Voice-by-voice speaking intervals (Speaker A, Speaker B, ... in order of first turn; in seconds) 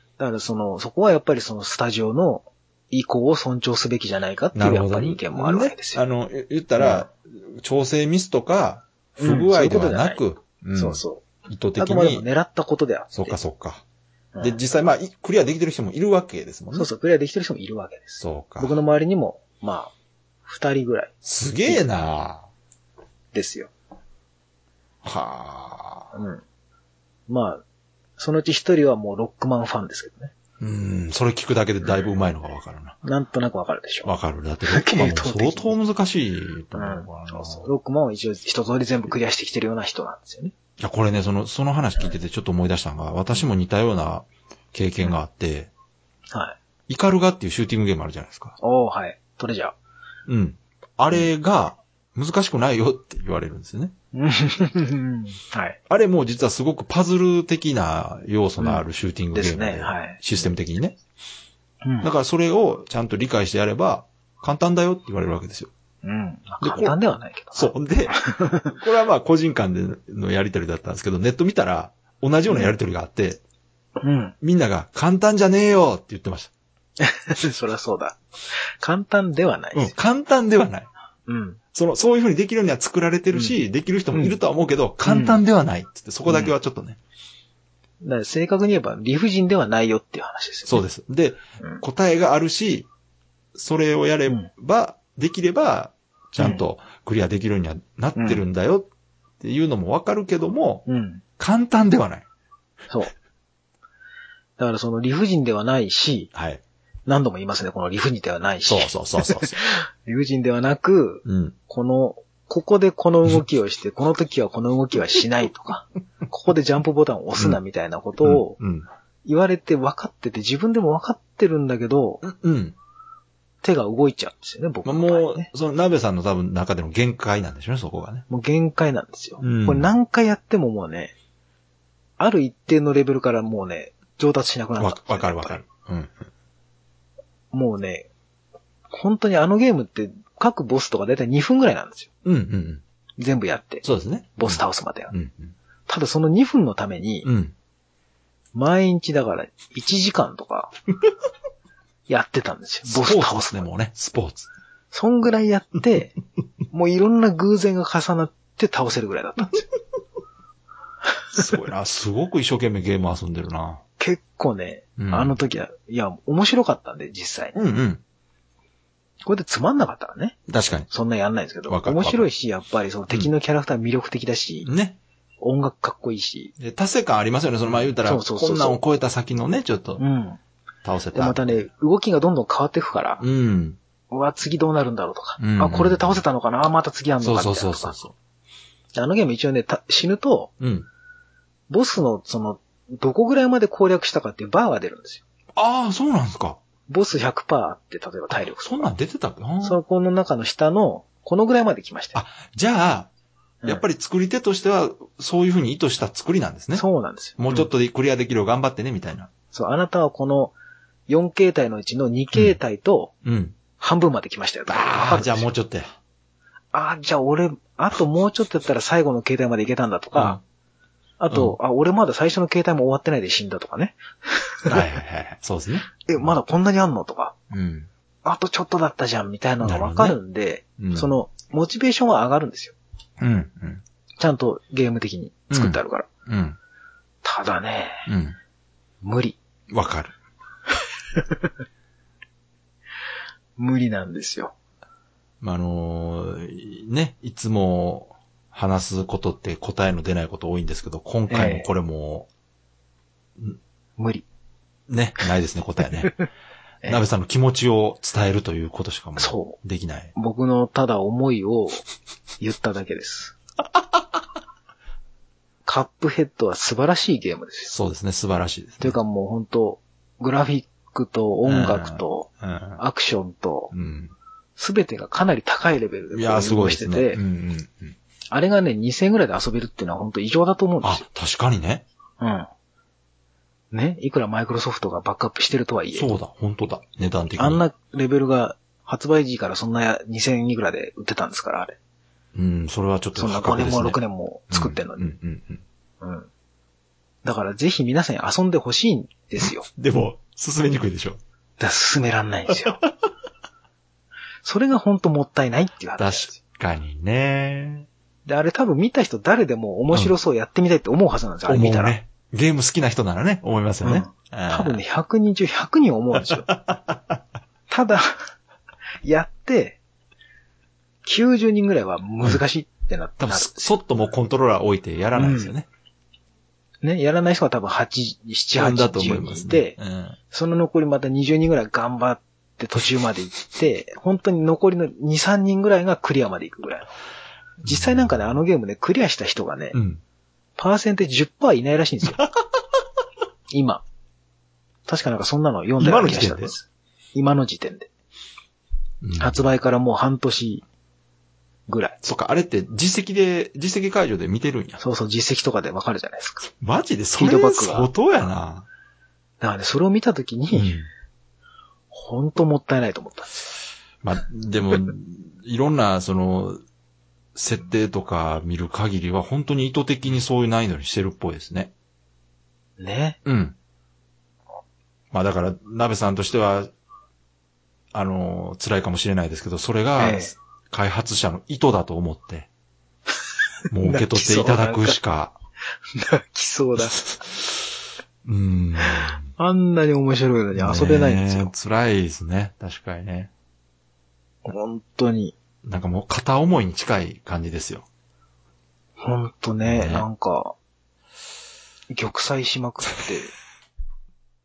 Speaker A: 0.2-6.0, 6.8-7.1, 9.2-10.2, 10.8-11.2, 11.8-13.4, 16.7-19.9, 20.4-21.1, 23.3-23.7, 26.1-26.4, 27.3-27.6, 28.2-30.3, 31.8-32.1, 33.0-34.1, 34.7-35.8, 36.7-40.5, 48.6-49.8, 54.1-55.8, 58.6-60.2, 61.8-62.1, 66.0-68.7, 72.5-72.8, 74.0-74.3, 77.0-80.0, 81.3-81.6, 84.1-84.4, 85.1-85.4, 86.3-86.5, 88.0-90.8, 96.4-96.6, 98.2-98.4, 100.9-101.2, 104.6-106.3, 107.1-118.6, 119.2-122.2, 123.6-125.5, 128.3-131.1, 132.2-135.6, 137.5-138.1, 138.9-142.1, 143.2-143.8, 144.4-145.1, 145.9-147.3, 148.5-150.7, 152.1-153.7, 154.9-156.2, 156.7-159.7, 164.0-167.6, 169.2-170.4, 170.9-174.7, 175.4-176.5, 177.7-178.8, 180.0-180.4, 181.1-183.2, 184.1-188.0, 188.9-190.5, 191.7-195.2, 196.9-198.9, 199.6-202.2, 206.7-207.7, 209.5-210.6, 211.1-213.1, 213.8-215.5, 216.7-220.4, 221.2-224.8, 226.0-227.4, 228.2-232.8, 234.2-236.1, 237.2-238.1, 239.0-239.4, 243.6-244.5, 251.3-251.7, 254.0-254.2, 259.2-259.6, 260.1-261.8, 262.4-263.4, 265.6-267.7, 268.8-273.7, 274.6-277.2, 278.3-281.1, 282.2-282.5, 283.7-286.1, 287.4-291.8, 293.1-295.1, 296.0-296.3, 297.2-299.7, 301.6-302.8, 304.4-306.4, 308.2-311.9, 313.8-316.5, 317.7-318.3, 319.0-319.8, 321.1-323.8, 325.1-325.5, 326.8-329.8, 330.3-336.9, 337.6-339.8, 340.6-342.2, 343.5-343.9, 344.9-347.9, 349.2-350.6, 351.7-352.0, 354.8-356.5, 357.2-357.9, 359.4-360.8, 361.9-363.5, 372.8-373.2, 380.0-380.3, 383.8-385.0, 385.9-387.0, 388.9-391.5, 394.4-395.4, 399.0-400.6, 401.9-403.3
Speaker B: 4.5-12.3, 13.1-13.8, 14.4-16.9, 18.2-18.8, 21.2-22.4, 25.0-26.1, 30.6-33.0, 34.0-37.7, 40.8-45.7, 46.9-48.6, 50.3-53.9, 55.9-61.0, 62.0-65.7, 66.6-67.0, 67.5-73.4, 74.4-76.5, 79.7-80.9, 81.7-87.0, 90.7-92.9, 93.5-98.9, 99.4-100.8, 101.4-102.3, 106.3-106.6, 108.7-109.6, 111.2-111.5, 118.2-118.9, 122.2-122.8, 124.8-128.2, 129.4-129.9, 134.8-136.3, 142.2-142.8, 143.8-145.5, 147.2-147.5, 152.8-154.5, 161.3-163.8, 165.0-165.3, 167.6-168.0, 170.5-170.9, 171.7-172.3, 174.7-175.0, 176.6-180.0, 180.8-181.6, 183.2-183.8, 185.4-186.2, 187.2-188.1, 190.6-190.9, 195.6-196.6, 198.3-199.8, 202.2-203.1, 203.7-206.8, 207.4-209.3, 213.2-213.6, 214.7-215.9, 220.1-220.4, 221.3-221.6, 224.7-226.3, 227.5-227.9, 229.6-230.2, 230.8-231.1, 233.2-233.8, 235.5-236.6, 238.1-238.4, 239.7-240.1, 245.4-252.3, 254.9-256.2, 256.9-260.1, 267.7-269.0, 271.5-272.8, 273.7-274.1, 276.1-278.0, 280.8-281.9, 285.9-287.6, 292.3-294.0, 294.5-295.6, 299.4-301.2, 306.0-307.9, 311.5-314.8, 316.2-317.2, 323.2-325.7, 328.6-330.2, 337.6-338.1, 339.7-340.0, 345.8-346.5, 349.0-349.4, 352.0-354.8, 356.5-358.7, 360.5-360.9, 364.0-366.6, 367.4-371.7, 373.2-373.6, 375.1-376.7, 377.9-382.5, 383.7-385.4, 386.8-387.7, 388.2-389.3, 390.6-393.3, 395.6-397.9, 399.6-400.1